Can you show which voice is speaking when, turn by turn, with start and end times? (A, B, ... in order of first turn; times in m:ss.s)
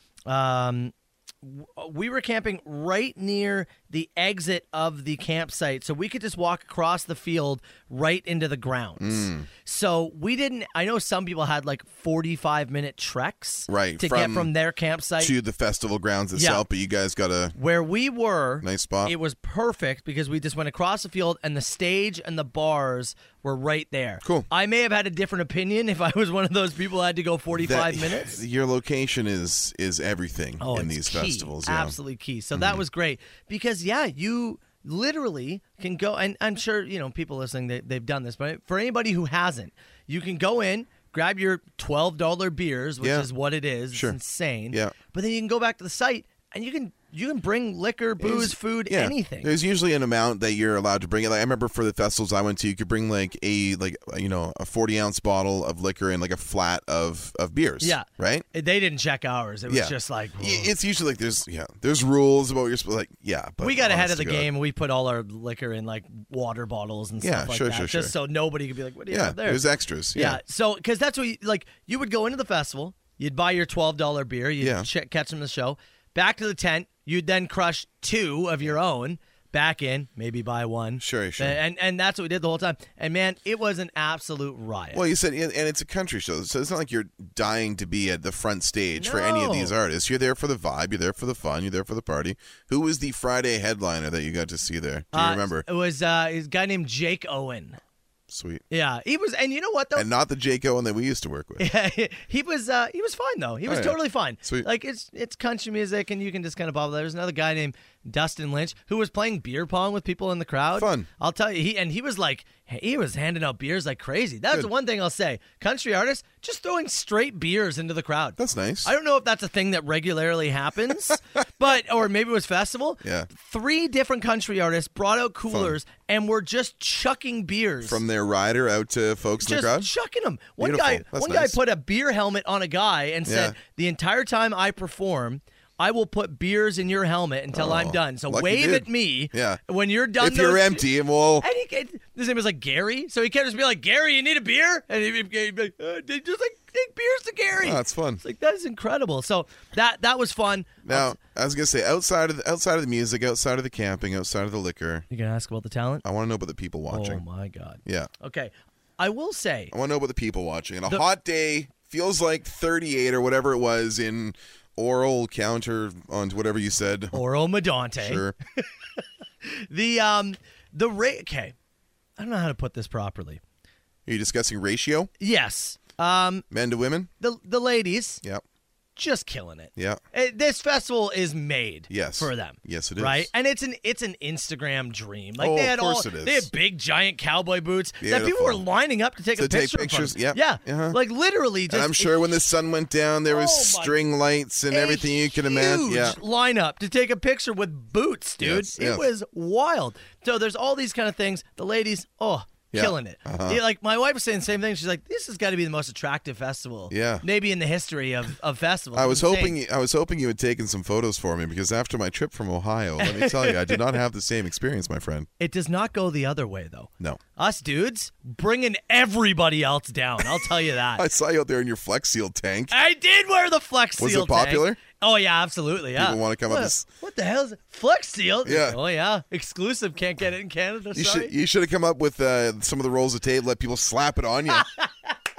0:00.3-0:15.3 A
0:09.0-0:09.5 B
0:13.7-0:14.5 B
0:15.2-0:17.6 B
0:16.4-0:16.6 A
0:17.6-0:28.4 A
0:18.6-0:19.1 B
0:24.2-0:24.5 B
0:27.5-0:32.0 B
0:30.6-0:49.5 A
0:32.6-0:32.8 B
0:43.0-0:43.3 B
0:43.9-0:44.2 B
0:48.2-0:58.4 B
0:57.8-1:00.7 A
0:59.7-1:04.5 B
1:03.6-1:09.6 A
1:07.2-1:08.2 B
1:09.1-1:10.4 B
1:10.1-1:25.0 A
1:14.6-1:14.9 B
1:21.0-1:21.6 B
1:24.9-1:35.7 B
1:29.0-1:29.7 A
1:35.1-1:37.8 A
1:38.3-1:38.6 B
1:38.7-1:40.1 A
1:40.0-1:41.7 B
1:41.6-2:08.0 A
1:43.7-1:44.7 B
1:50.8-1:51.1 B
1:58.4-1:58.9 B
2:03.0-2:03.3 B
2:05.5-2:05.8 B
2:07.8-2:09.9 B
2:09.4-2:20.9 A
2:10.6-2:11.6 B
2:13.3-2:13.6 B
2:17.5-2:19.6 B
2:20.2-2:21.5 B
2:21.4-2:31.2 A
2:27.6-2:28.2 B
2:30.8-2:35.1 B
2:35.1-2:36.0 A
2:36.0-2:37.2 B
2:36.9-2:39.7 A
2:37.8-2:38.1 B
2:39.7-2:47.2 B
2:47.1-2:51.6 A
2:48.0-2:48.4 B
2:52.2-2:53.4 A
2:54.1-2:55.1 B
2:55.2-2:56.4 A
2:56.5-2:57.1 B
2:57.2-2:58.2 A
2:59.0-3:12.3 A
2:59.8-3:00.0 B
3:01.9-3:03.3 B
3:05.4-3:06.5 B
3:08.0-3:08.6 B
3:09.4-3:11.0 B
3:11.7-3:16.2 B
3:13.3-3:14.0 A
3:14.7-3:29.6 A
3:18.4-3:19.1 B
3:22.7-3:23.6 B
3:26.9-3:27.2 B
3:28.9-3:35.3 B
3:33.0-3:33.8 A
3:35.4-3:41.0 A
3:41.0-3:42.8 B
3:42.7-3:51.3 A
3:44.0-3:44.8 B
3:46.0-3:46.9 B
3:48.4-3:48.8 B
3:50.9-3:54.7 B
3:54.5-3:55.1 A